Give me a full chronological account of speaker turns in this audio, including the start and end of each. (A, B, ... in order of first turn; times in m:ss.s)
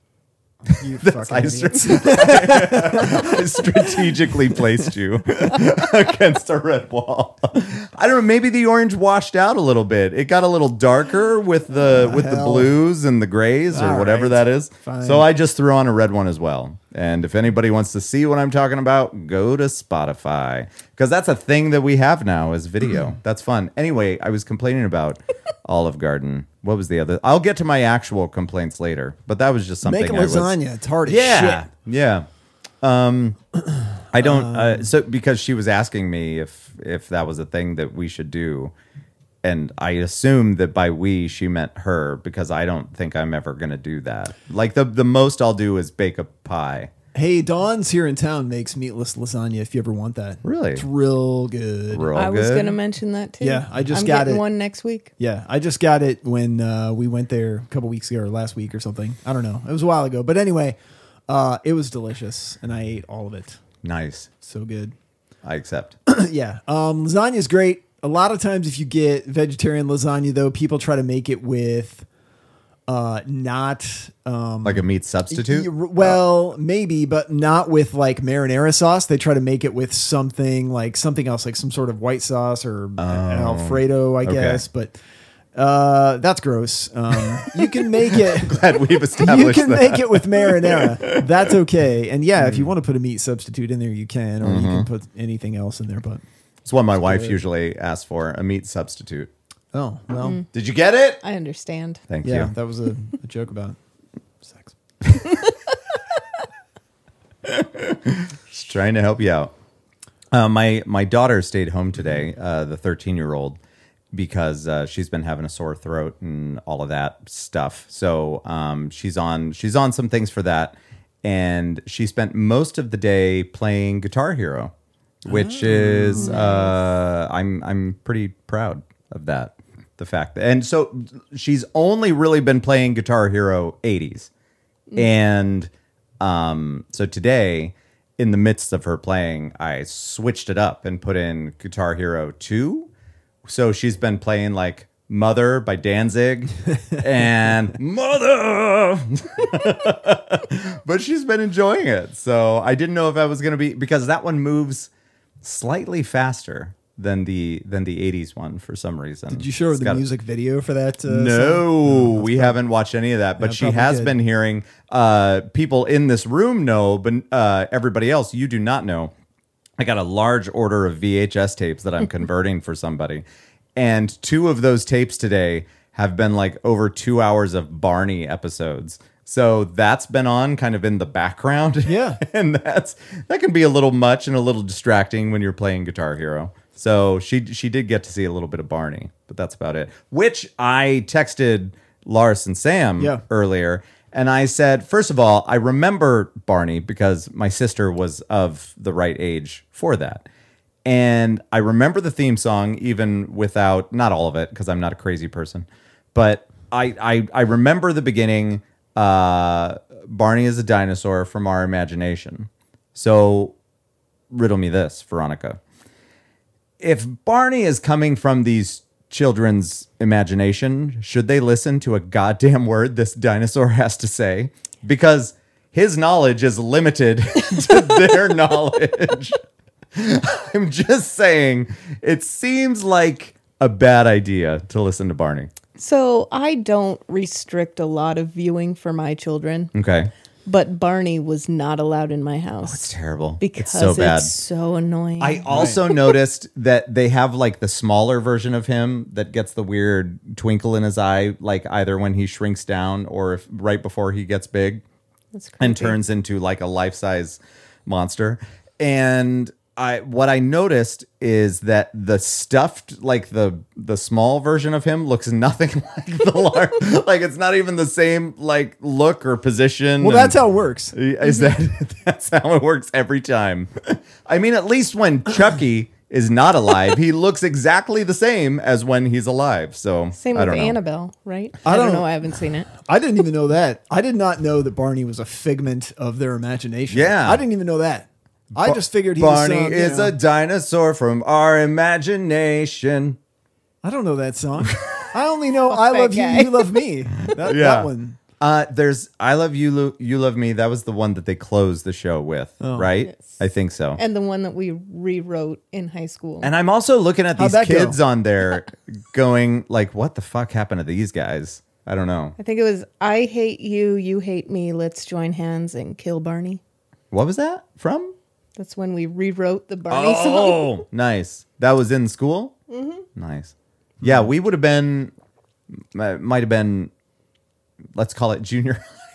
0:00.7-0:04.8 A
0:01.0-0:32.3 B
0:11.8-0:12.8 A
0:13.7-0:15.3 A
0:29.8-0:31.7 A
0:32.8-0:33.4 B
0:34.1-0:38.7 B
0:34.2-0:34.9 A
0:39.4-0:46.9 B
0:47.1-0:52.1 A
0:50.4-0:50.8 B
0:51.9-0:52.8 B
0:52.1-0:55.1 C
0:53.4-0:54.4 A
0:55.2-1:00.8 A
1:01.3-1:03.6 A
1:03.8-1:04.3 B
1:04.4-1:04.9 A
1:05.4-1:06.0 B
1:06.1-1:12.1 A
1:12.9-1:25.0 A
1:14.6-1:16.2 B
1:23.0-1:24.6 B
1:25.6-1:36.2 A
1:27.2-1:31.3 B
1:32.4-1:32.7 B
1:34.4-1:34.9 B
1:36.6-1:39.3 B
1:37.0-1:37.4 A
1:39.7-1:40.4 A
1:40.2-1:40.5 C
1:40.5-1:41.2 B
1:41.2-1:42.0 C
1:42.1-1:42.5 B
1:42.2-1:43.8 A
1:44.4-1:44.8 A
1:47.4-1:49.5 B
1:50.3-1:53.6 B
1:54.1-2:04.7 B
2:05.2-2:14.3 B
2:05.3-2:06.3 A
2:06.2-2:06.8 C
2:15.0-2:22.9 B
2:23.4-2:34.9 B
2:35.4-2:40.0 B
2:39.3-2:42.6 A
2:41.1-2:49.1 B
2:43.4-2:44.1 A
2:49.8-2:53.2 B
2:53.8-3:20.3 B
3:01.8-3:02.2 A
3:20.8-3:33.6 B
3:34.3-3:35.6 B
3:36.8-3:49.4 B
3:49.9-3:55.5 B
3:55.8-3:59.7 C
3:59.7-4:00.1 B
4:00.4-4:06.1 C
4:02.6-4:04.3 B
4:05.2-4:14.8 B
4:05.5-4:05.8 A
4:15.3-4:16.0 C
4:15.6-4:30.4 B
4:30.0-4:30.9 A
4:30.9-4:40.8 B
4:31.2-4:31.6 C
4:40.2-4:42.7 C
4:41.6-4:42.1 A
4:42.8-4:50.1 A
4:46.9-4:47.4 B
4:48.6-4:53.2 B
4:53.8-4:58.2 A
4:54.6-4:55.0 B
4:55.7-4:56.8 C
4:57.4-5:04.0 B
5:02.6-5:02.9 A
5:03.0-5:03.4 C
5:04.0-5:06.5 C
5:06.4-5:12.4 B
5:07.4-5:08.0 A
5:12.4-5:16.6 C
5:17.1-5:18.1 B
5:18.6-5:20.8 C
5:19.9-5:22.6 B
5:22.7-5:23.0 C
5:23.2-5:25.1 B
5:25.8-5:26.9 B
5:27.9-5:28.9 B